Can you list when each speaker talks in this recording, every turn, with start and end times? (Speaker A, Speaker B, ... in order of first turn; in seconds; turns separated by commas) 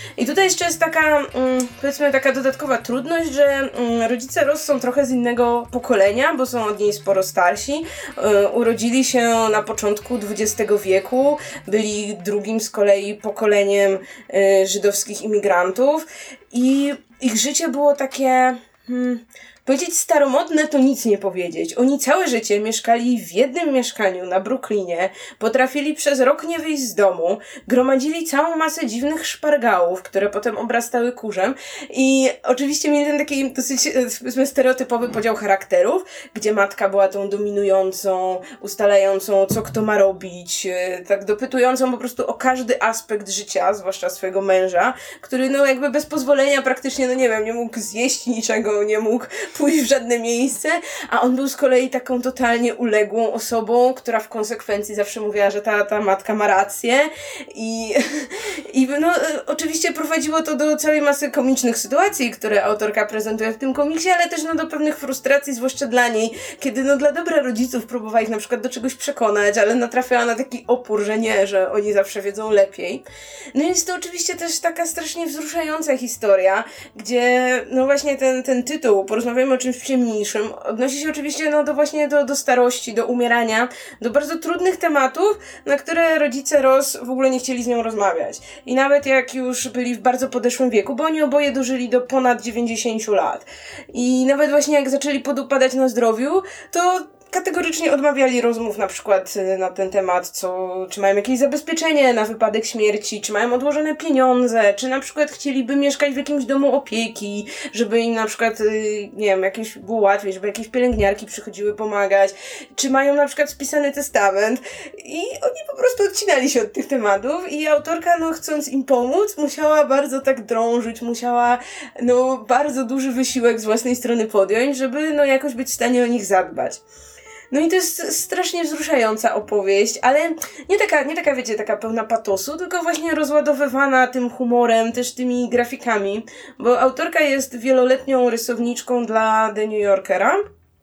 Speaker A: 0.2-126.8, Speaker A: 127.5-140.4